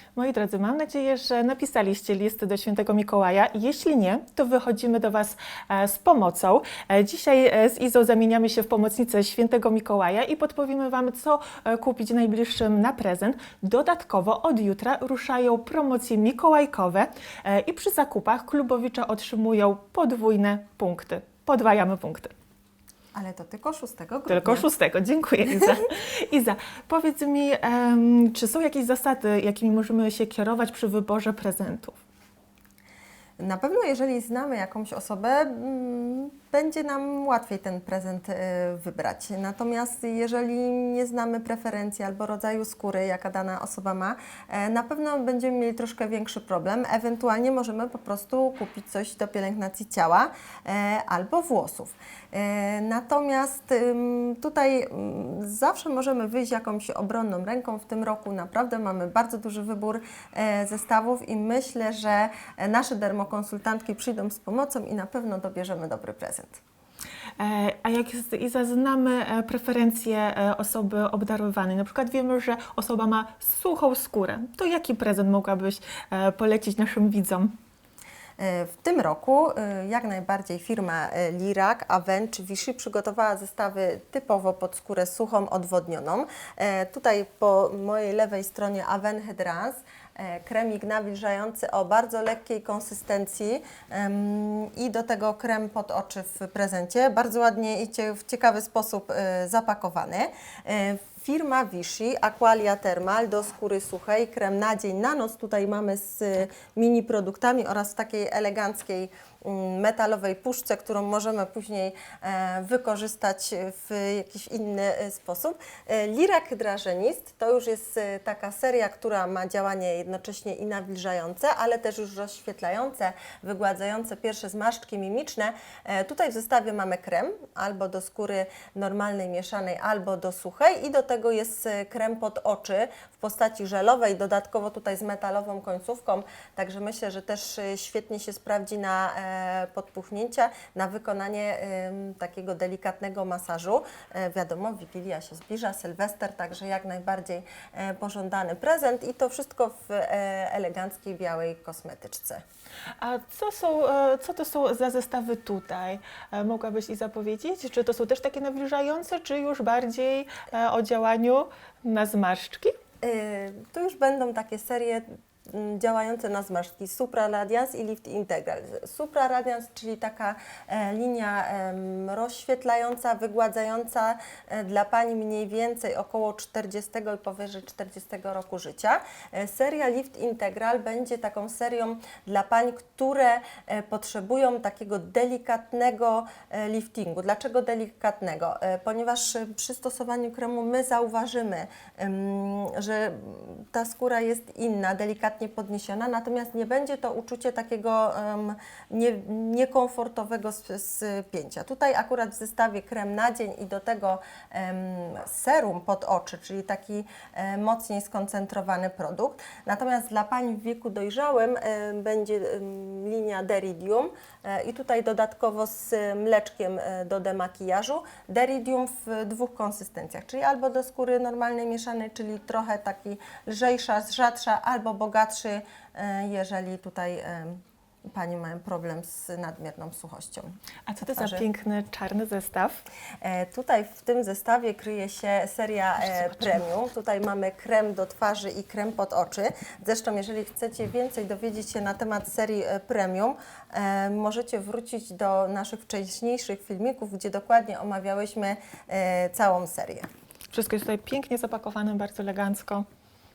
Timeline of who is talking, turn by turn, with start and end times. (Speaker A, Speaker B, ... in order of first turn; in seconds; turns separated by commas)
Speaker A: 0.1-22.3, Speaker B: 23.1-24.7, Speaker A: 24.3-32.0, Speaker B: 33.4-66.6, Speaker A: 67.4-77.6, Speaker B: 78.4-152.4, Speaker A: 153.0-162.8, Speaker B: 163.0-231.5, Speaker A: 230.9-232.8, Speaker B: 233.2-250.1, Speaker A: 250.5-252.8